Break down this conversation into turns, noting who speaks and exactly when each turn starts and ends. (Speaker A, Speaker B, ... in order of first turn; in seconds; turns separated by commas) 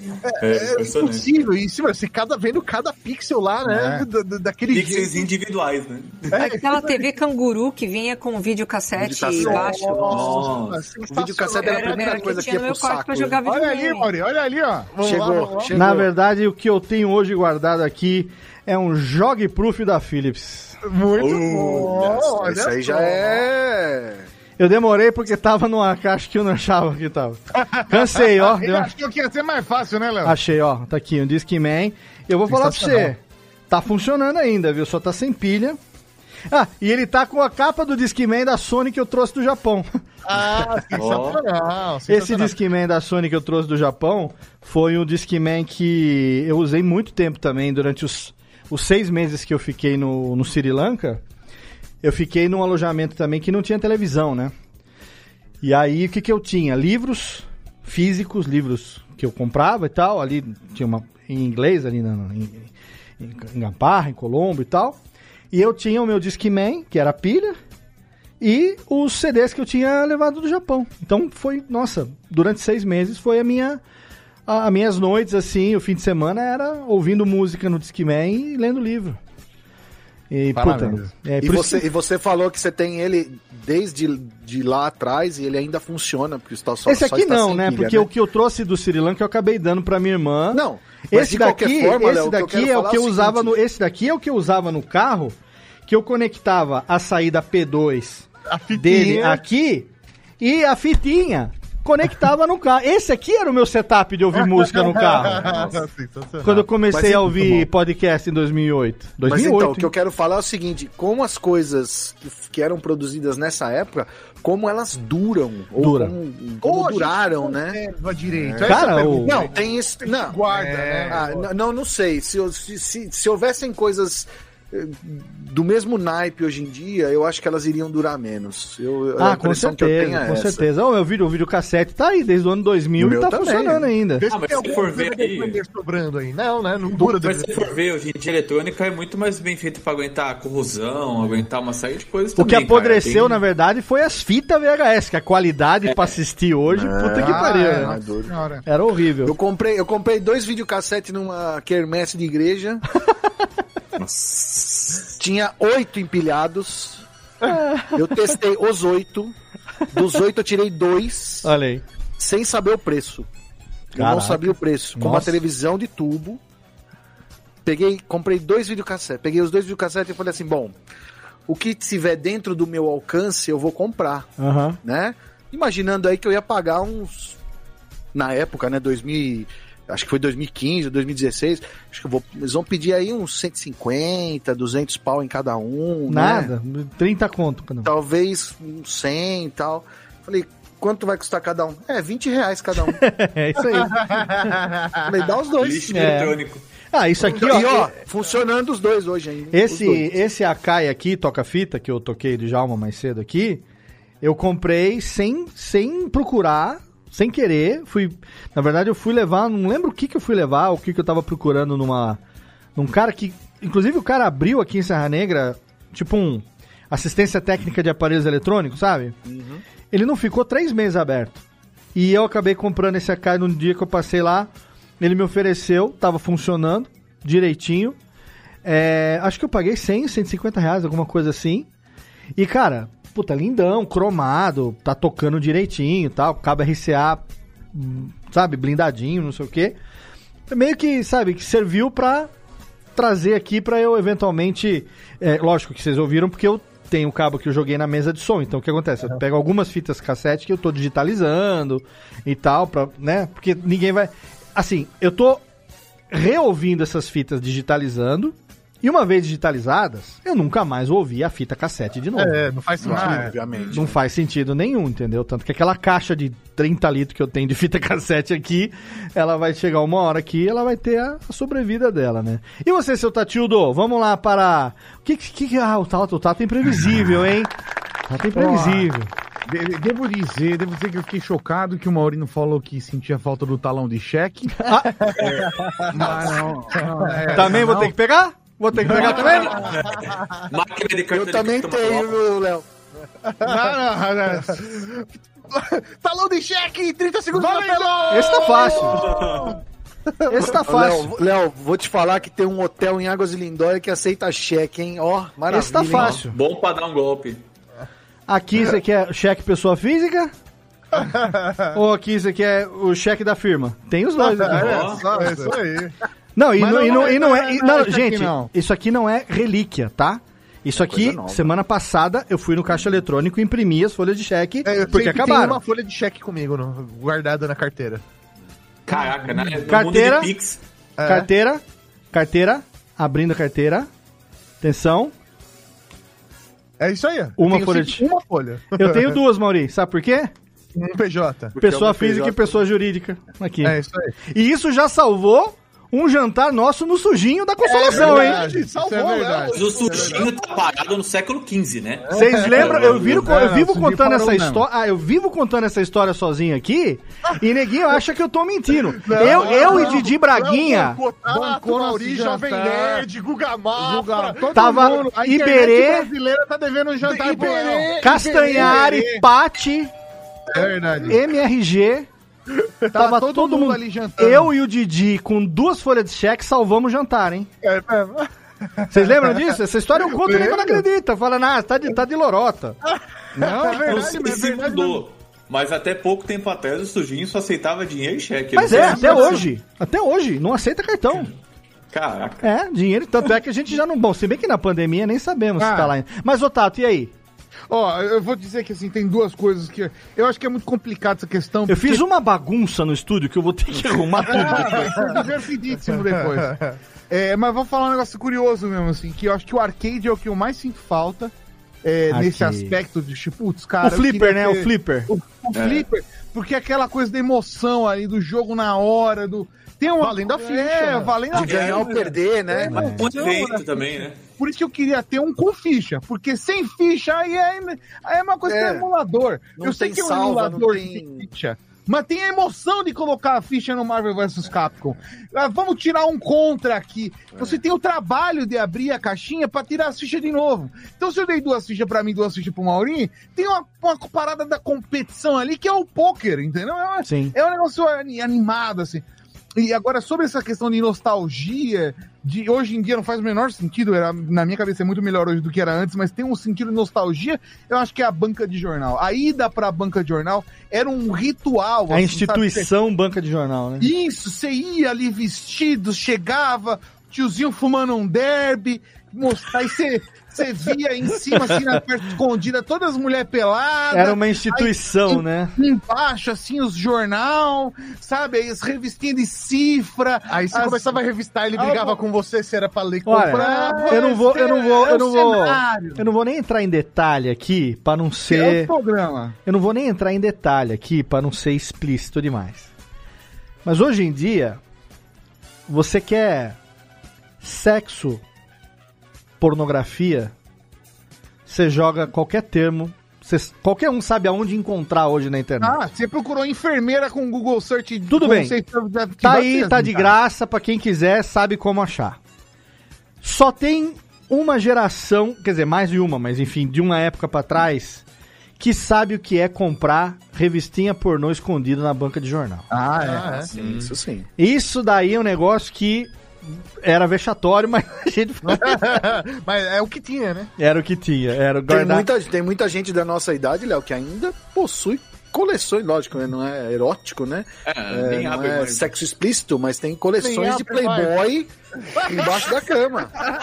Speaker A: 0.3-5.3, Speaker B: 0.4-1.3, Speaker C: 3.6-4.1, Speaker B: 4.7-6.3, Speaker A: 6.3-7.0, Speaker D: 6.3-10.1, Speaker E: 8.9-10.5, Speaker A: 9.4-12.2, Speaker C: 9.4-10.5, Speaker B: 10.1-10.8, Speaker E: 11.1-13.4, Speaker D: 11.6-14.1, Speaker C: 13.4-15.0, Speaker A: 14.9-15.7, Speaker E: 15.0-16.1, Speaker F: 15.7-20.8, Speaker A: 20.9-23.5, Speaker B: 21.2-22.0, Speaker E: 22.0-24.3, Speaker F: 24.6-28.9, Speaker C: 27.9-30.4, Speaker F: 30.2-35.8, Speaker A: 32.5-33.1, Speaker F: 36.5-40.0, Speaker A: 40.3-42.5, Speaker B: 40.9-41.4, Speaker F: 42.1-51.2, Speaker F: 52.0-54.5, Speaker F: 55.6-65.0, Speaker F: 65.5-67.6, Speaker F: 68.4-73.8, Speaker F: 74.5-79.2, Speaker F: 80.3-81.9, Speaker E: 81.4-88.1, Speaker F: 86.9-99.9, Speaker E: 90.5-93.5, Speaker A: 98.5-99.4, Speaker F: 100.4-105.7, Speaker A: 104.7-106.5, Speaker F: 106.4-109.9, Speaker E: 106.8-107.7, Speaker E: 109.2-117.8, Speaker F: 115.8-116.2, Speaker A: 116.6-121.4, Speaker E: 118.4-120.4, Speaker C: 118.6-119.4, Speaker F: 118.6-119.4, Speaker C: 120.5-121.3, Speaker E: 121.1-130.6, Speaker F: 129.2-134.2, Speaker E: 133.0-133.6, Speaker A: 133.4-137.8, Speaker B: 134.3-135.6, Speaker B: 136.9-143.4, Speaker F: 142.4-148.0, Speaker E: 146.7-148.3, Speaker C: 147.2-148.6, Speaker F: 148.7-149.3, Speaker E: 149.2-152.8, Speaker E: 154.0-157.0, Speaker F: 157.5-158.1, Speaker E: 157.9-159.3, Speaker E: 159.9-161.5, Speaker F: 161.4-161.8, Speaker E: 162.2-163.3, Speaker E: 163.9-166.4, Speaker F: 164.0-165.4, Speaker E: 167.7-170.8, Speaker E: 171.5-174.3, Speaker F: 174.4-174.8, Speaker E: 174.8-177.4, Speaker E: 178.1-186.5, Speaker F: 186.1-187.9, Speaker E: 187.8-193.0, Speaker F: 192.8-194.0, Speaker E: 195.1-196.1, Speaker B: 195.6-196.6, Speaker F: 195.9-196.4, Speaker F: 196.9-197.9, Speaker E: 197.2-200.1, Speaker F: 199.5-203.6, Speaker F: 204.2-212.2, Speaker F: 212.8-219.2, Speaker E: 219.3-219.6, Speaker F: 219.9-221.4, Speaker F: 221.9-228.0, Speaker F: 228.6-231.7, Speaker F: 232.4-237.2, Speaker F: 237.7-239.8, Speaker F: 240.5-242.3, Speaker F: 243.0-255.4, Speaker F: 256.1-263.2, Speaker A: 262.2-263.3, Speaker E: 262.8-264.0, Speaker C: 262.8-263.3, Speaker F: 263.7-277.5, Speaker F: 278.1-279.1, Speaker C: 278.4-278.8, Speaker C: 279.5-285.3, Speaker C: 285.9-287.9, Speaker A: 286.1-287.7, Speaker F: 287.3-289.6, Speaker C: 288.9-289.6, Speaker B: 289.2-292.2, Speaker E: 291.1-292.7, Speaker C: 293.4-294.9, Speaker A: 295.6-298.9, Speaker C: 297.3-299.5, Speaker F: 298.1-299.1, Speaker B: 299.1-299.4, Speaker F: 300.3-301.1, Speaker E: 300.4-306.2, Speaker F: 305.5-306.4, Speaker B: 305.9-307.4, Speaker F: 308.3-310.3, Speaker F: 311.7-314.6, Speaker A: 314.2-315.9, Speaker B: 314.5-315.1, Speaker C: 315.0-315.6, Speaker F: 316.4-325.6, Speaker A: 316.6-317.1, Speaker C: 316.6-318.4, Speaker E: 320.7-321.5, Speaker A: 324.6-328.0, Speaker B: 328.9-330.6, Speaker F: 329.7-330.3, Speaker A: 331.0-331.3, Speaker F: 331.0-333.9, Speaker F: 334.6-335.1, Speaker A: 336.8-339.1, Speaker F: 337.4-338.0, Speaker F: 338.7-340.3, Speaker A: 340.8-342.2, Speaker F: 341.6-343.8, Speaker A: 343.6-344.1, Speaker F: 344.3-348.4, Speaker C: 347.7-350.3, Speaker A: 347.7-350.3, Speaker B: 349.5-353.4, Speaker F: 352.1-361.0, Speaker C: 353.1-354.6, Speaker A: 359.1-364.6, Speaker C: 359.1-360.1, Speaker C: 361.3-363.1, Speaker C: 363.8-369.1, Speaker F: 364.5-366.1, Speaker A: 367.0-369.2, Speaker F: 368.0-369.9, Speaker A: 370.5-371.2, Speaker C: 370.5-371.2, Speaker F: 371.1-372.1, Speaker C: 372.9-374.5, Speaker F: 372.9-377.5, Speaker A: 377.6-378.3, Speaker F: 378.9-382.8, Speaker A: 380.1-380.8, Speaker C: 380.2-380.7, Speaker C: 383.4-384.9, Speaker A: 383.4-384.6, Speaker B: 383.7-389.4, Speaker F: 388.6-391.3, Speaker C: 388.6-389.4, Speaker B: 391.9-392.5, Speaker F: 392.4-397.1, Speaker C: 395.6-395.9, Speaker C: 397.7-402.0, Speaker F: 401.7-405.2, Speaker C: 404.3-406.6, Speaker A: 404.8-405.1, Speaker C: 407.1-411.3, Speaker C: 411.9-421.9, Speaker F: 412.1-412.8, Speaker F: 413.8-415.1, Speaker B: 415.5-415.9, Speaker A: 420.0-421.3, Speaker B: 421.3-422.1, Speaker E: 421.3-423.0, Speaker C: 422.5-423.6, Speaker B: 422.7-424.2, Speaker F: 422.7-423.1, Speaker A: 423.2-423.5, Speaker C: 424.4-449.0, Speaker E: 428.5-428.9, Speaker E: 429.6-431.3, Speaker F: 447.1-447.4, Speaker C: 449.6-462.6, Speaker F: 461.9-463.9, Speaker C: 463.8-481.0, Speaker F: 471.4-471.7, Speaker F: 473.9-475.6, Speaker A: 480.3-484.5, Speaker C: 481.6-482.0, Speaker F: 483.1-488.7, Speaker C: 483.4-486.0, Speaker C: 488.3-489.4, Speaker F: 489.5-492.7, Speaker F: 493.6-494.6, Speaker F: 495.7-496.6, Speaker F: 497.4-498.2, Speaker F: 499.4-500.3, Speaker F: 501.5-505.8, Speaker C: 505.6-510.1, Speaker F: 508.1-508.5, Speaker F: 509.2-512.2, Speaker F: 513.2-518.0, Speaker F: 518.6-522.7, Speaker C: 522.7-523.5, Speaker A: 522.8-523.5, Speaker E: 523.5-524.3, Speaker B: 523.6-523.9, Speaker F: 524.4-526.1, Speaker F: 526.8-528.9, Speaker A: 528.5-530.5, Speaker F: 530.6-532.1, Speaker E: 531.7-541.5, Speaker B: 537.7-539.0, Speaker A: 540.2-541.1, Speaker A: 542.1-542.6, Speaker E: 542.1-543.1